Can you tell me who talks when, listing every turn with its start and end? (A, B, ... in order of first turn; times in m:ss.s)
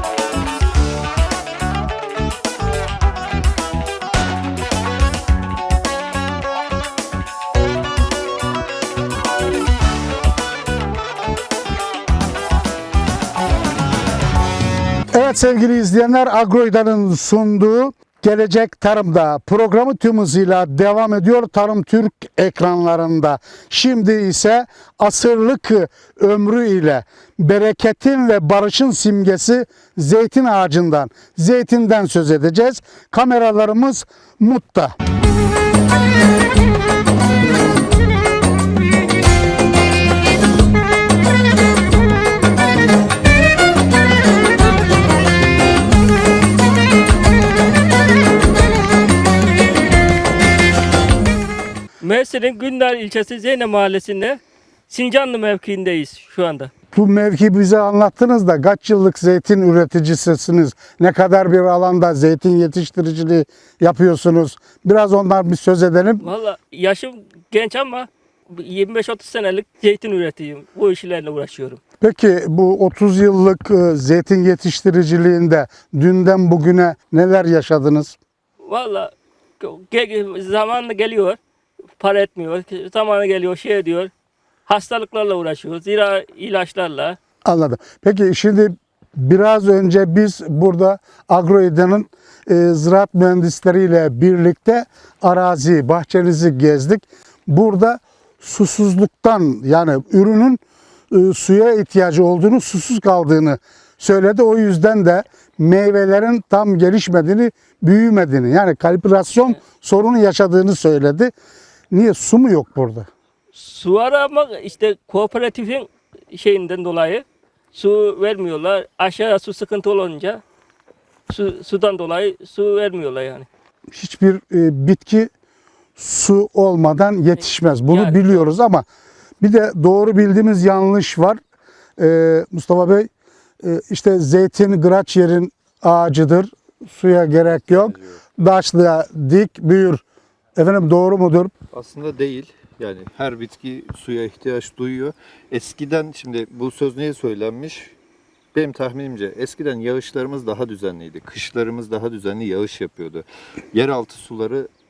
0:15.1-0:34.9 A
0:52.0-0:56.7 B
0:56.9-1:06.2 A
1:06.2-1:11.8 B
1:12.0-1:18.2 A
1:18.6-1:21.4 B
1:22.0-1:24.1 B
1:24.7-1:27.2 B
1:27.4-1:51.3 A
1:51.9-1:53.1 A
1:53.5-2:00.4 B
2:01.3-2:03.5 B
2:03.9-2:05.3 A
2:06.0-2:08.8 A
2:07.4-2:08.5 B
2:09.4-2:11.4 A
2:12.0-2:13.1 A
2:13.6-2:20.0 A
2:17.5-2:18.5 C
2:20.6-2:21.5 A
2:21.7-2:28.0 C
2:28.5-2:34.7 C